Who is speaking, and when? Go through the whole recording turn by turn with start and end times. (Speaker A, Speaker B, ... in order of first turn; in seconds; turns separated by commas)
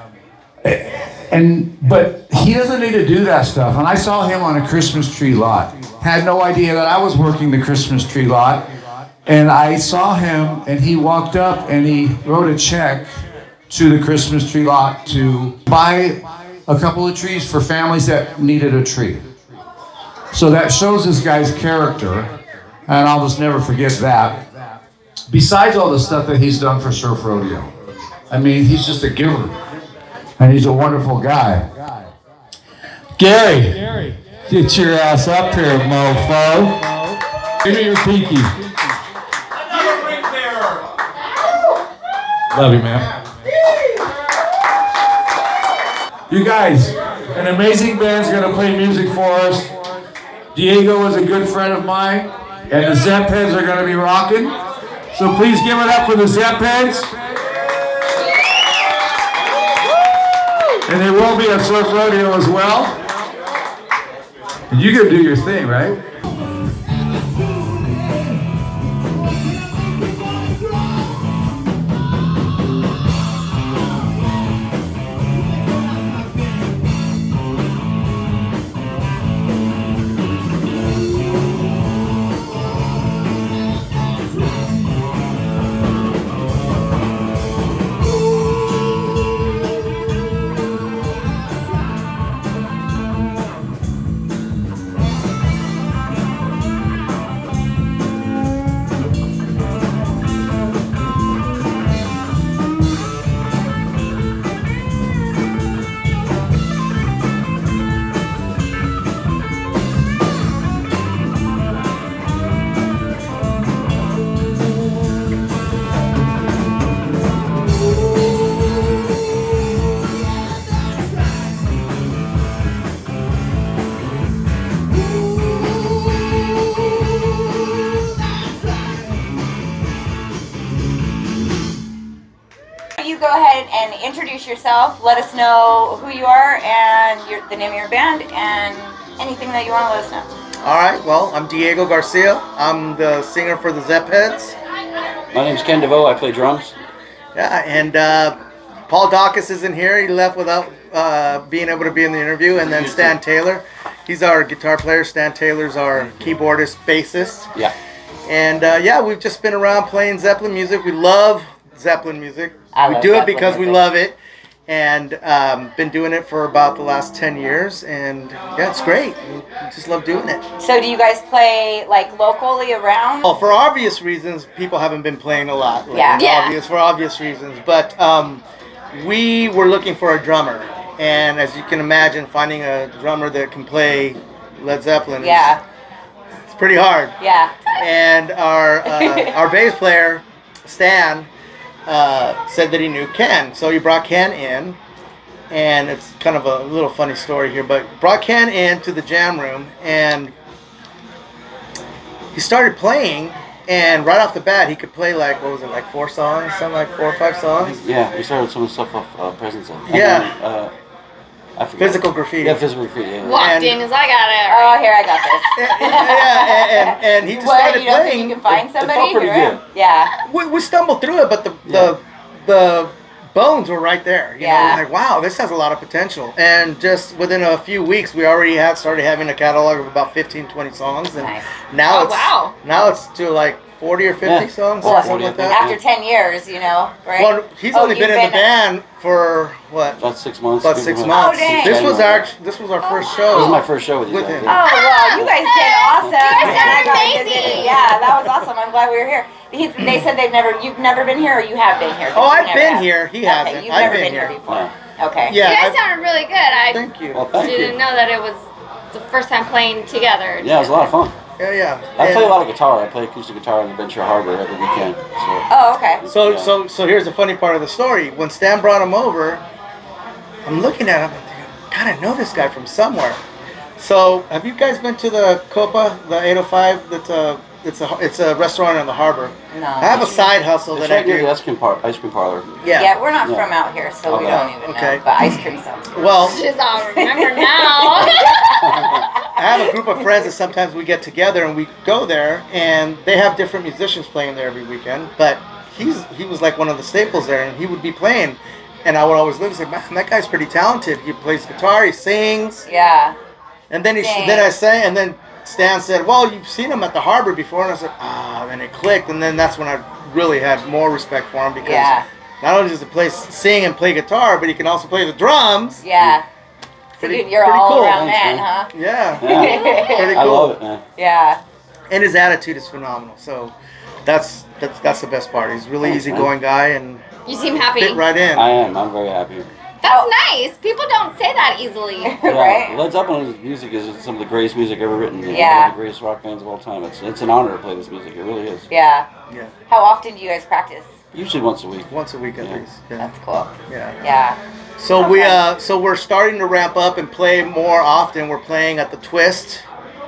Speaker A: 0.6-8.7, Speaker A: 9.2-13.1, Speaker A: 13.7-19.2, Speaker A: 20.3-22.3, Speaker A: 22.9-24.5, Speaker A: 25.3-27.7, Speaker A: 28.3-29.6, Speaker A: 30.4-32.1, Speaker A: 33.2-36.9, Speaker A: 37.6-38.5, Speaker A: 42.5-43.1, Speaker A: 46.3-49.7, Speaker A: 50.5-54.5, Speaker A: 55.1-57.1, Speaker A: 60.9-63.0, Speaker A: 64.7-66.0, Speaker B: 133.0-140.3, Speaker C: 140.6-144.5, Speaker D: 145.3-146.7, Speaker C: 147.3-148.4, Speaker C: 148.9-157.5, Speaker D: 152.6-153.1, Speaker C: 158.2-170.4, Speaker B: 162.7-163.8, Speaker B: 170.6-173.3, Speaker C: 173.2-178.4, Speaker B: 175.9-176.2, Speaker E: 176.1-176.6, Speaker C: 178.9-185.5, Speaker B: 185.2-185.6, Speaker C: 186.5-187.2, Speaker B: 187.2-187.5, Speaker C: 187.8-191.3, Speaker B: 188.8-189.3, Speaker C: 191.9-194.8, Speaker C: 195.5-200.3, Speaker C: 202.3-207.8, Speaker D: 207.6-210.7, Speaker C: 209.9-210.3, Speaker D: 211.6-213.6, Speaker C: 211.8-212.7, Speaker E: 213.2-215.5, Speaker C: 213.3-213.8, Speaker B: 214.5-220.1, Speaker C: 215.6-218.4, Speaker D: 218.5-219.6, Speaker C: 220.3-235.6, Speaker D: 221.7-221.9, Speaker B: 224.4-224.8, Speaker B: 231.2-231.4, Speaker E: 231.9-232.5, Speaker D: 234.2-235.8, Speaker B: 234.8-238.5, Speaker C: 237.2-240.0, Speaker D: 240.0-242.3, Speaker C: 240.6-244.5, Speaker B: 241.1-241.8, Speaker E: 242.8-243.6, Speaker D: 243.3-245.5, Speaker B: 244.4-255.4, Speaker E: 244.6-248.0, Speaker D: 246.0-247.7, Speaker C: 252.1-254.4, Speaker D: 253.8-254.7, Speaker C: 255.2-255.8, Speaker E: 255.4-260.9, Speaker C: 256.7-257.3, Speaker D: 257.1-257.8, Speaker D: 260.4-261.1, Speaker C: 261.4-262.4, Speaker D: 262.0-265.4, Speaker B: 265.5-266.0, Speaker D: 266.0-266.5, Speaker C: 266.1-269.4, Speaker C: 270.4-273.2, Speaker C: 273.8-281.3, Speaker B: 279.5-280.2, Speaker D: 279.9-282.6, Speaker C: 282.6-282.9, Speaker B: 282.7-286.0, Speaker D: 283.2-283.5, Speaker D: 284.1-284.5, Speaker C: 284.1-285.4, Speaker C: 285.9-286.4, Speaker E: 286.2-288.6, Speaker B: 286.8-289.0, Speaker D: 288.6-289.0, Speaker C: 289.4-302.6, Speaker B: 302.6-303.1, Speaker C: 303.7-315.8, Speaker B: 304.0-304.5, Speaker B: 311.6-312.0, Speaker B: 315.8-316.2, Speaker C: 317.0-318.1, Speaker B: 317.0-318.7, Speaker D: 317.8-318.5, Speaker C: 318.7-320.6, Speaker D: 319.2-320.8, Speaker B: 319.2-320.2, Speaker E: 319.3-320.1, Speaker B: 321.0-321.4, Speaker C: 321.9-323.5, Speaker C: 324.1-327.0, Speaker D: 325.8-326.3, Speaker E: 327.2-328.0, Speaker C: 327.6-328.5, Speaker D: 328.3-329.5, Speaker E: 329.8-332.2, Speaker B: 332.0-332.8, Speaker D: 332.2-338.7, Speaker B: 335.3-335.7, Speaker B: 338.7-339.1, Speaker B: 339.7-340.9, Speaker D: 341.1-341.9, Speaker C: 341.9-343.1, Speaker B: 343.0-344.4, Speaker C: 343.7-344.0, Speaker C: 344.8-349.6, Speaker B: 345.0-345.4